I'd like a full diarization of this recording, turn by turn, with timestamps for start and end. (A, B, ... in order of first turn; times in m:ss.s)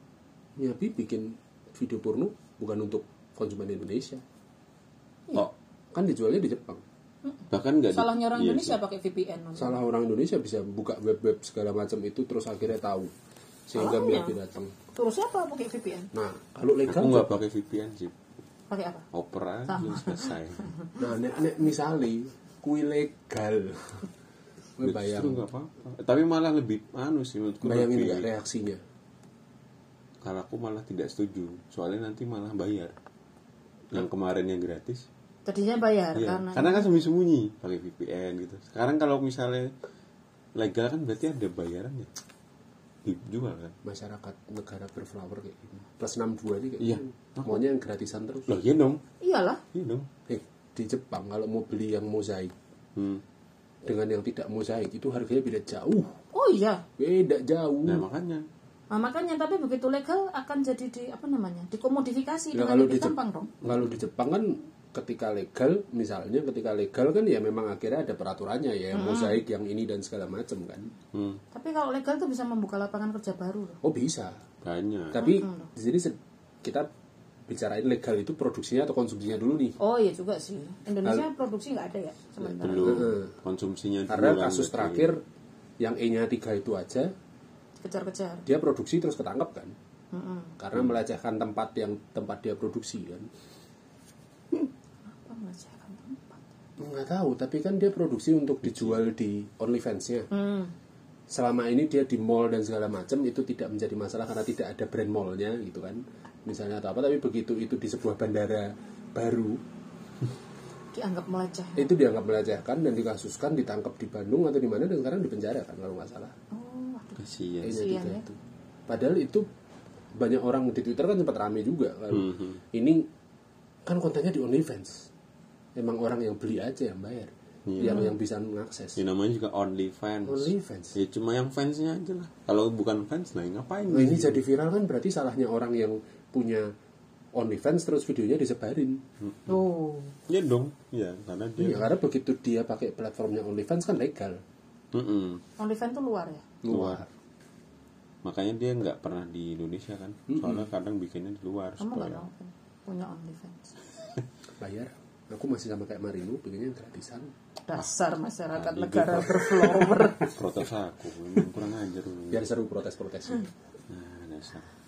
0:00.6-0:04.2 A
0:05.9-0:06.8 A
0:07.2-0:09.8 B
0:07.5-0:08.8 C
0:09.6-0:13.1 A
0:13.7-0:14.7 A
0:13.8-0:14.3 B
0:14.9-0:16.1 B
0:16.1-0:17.4 A
0:16.8-0:18.1 C
0:18.7-0:19.0 B
0:19.1-0:20.7 C
0:19.7-0:20.3 B
0:21.0-0:24.1 A
0:24.8-0:25.5 A
0:24.8-0:28.3 C
0:27.6-0:28.8 A
0:30.2-0:32.9 C
0:33.9-0:35.1 C
0:35.4-0:36.9 B
0:36.1-0:39.7 C
0:40.6-0:42.1 C
0:43.0-0:43.7 C
0:43.8-0:48.6 A
0:46.8-0:47.6 C
0:48.5-0:49.0 C
0:49.2-0:49.6 B
0:49.7-0:50.1 C
0:50.3-0:52.5 A
0:52.9-0:53.2 C
0:53.8-0:56.1 A
0:56.3-0:56.8 B
0:57.0-0:58.0 A
0:57.8-0:58.5 C
0:58.9-1:03.5 B
1:02.5-1:10.9 A
1:03.7-1:03.9 C
1:08.9-1:09.4 B
1:11.1-1:11.4 C
1:11.5-1:13.8 B
1:13.8-1:14.4 A
1:14.6-1:15.3 C
1:15.1-1:16.9 A
1:15.2-1:15.7 B
1:17.5-1:19.8 A
1:19.8-1:23.1 B
1:22.6-1:25.1 C
1:22.6-1:23.3 A
1:24.1-1:25.2 A
1:25.8-1:27.1 A
1:27.8-1:28.4 B
1:28.4-1:29.7 A
1:30.1-1:30.5 B
1:30.6-1:33.3 A
1:30.7-1:31.0 C
1:34.5-1:36.4 B
1:36.8-1:40.3 A
1:38.6-1:39.0 C
1:40.3-1:40.7 B
1:41.3-1:49.6 A
1:50.9-1:51.9 B
1:51.8-1:56.3 A
1:56.5-1:57.2 B
1:57.2-1:57.9 C
1:57.6-1:58.3 A
1:57.7-1:58.2 B
1:58.9-1:59.4 A
2:00.2-2:03.1 A
2:02.1-2:02.6 C
2:03.8-2:05.1 A
2:05.8-2:09.0 A
2:07.6-2:08.1 C
2:07.8-2:08.1 B
2:09.0-2:14.4 C
2:10.3-2:11.0 A
2:13.9-2:16.7 A
2:17.3-2:19.0 A
2:19.2-2:19.6 C
2:19.5-2:20.1 B
2:20.3-2:21.9 C
2:21.6-2:24.4 A
2:24.9-2:25.4 C
2:25.6-2:26.4 B
2:26.6-2:27.1 A
2:26.7-2:27.0 C
2:28.2-2:32.2 C
2:30.3-2:30.6 A
2:31.8-2:33.8 B
2:34.6-2:37.3 A
2:37.6-2:40.3 B
2:38.5-2:42.4 C
2:42.3-2:43.5 A
2:43.9-2:44.7 C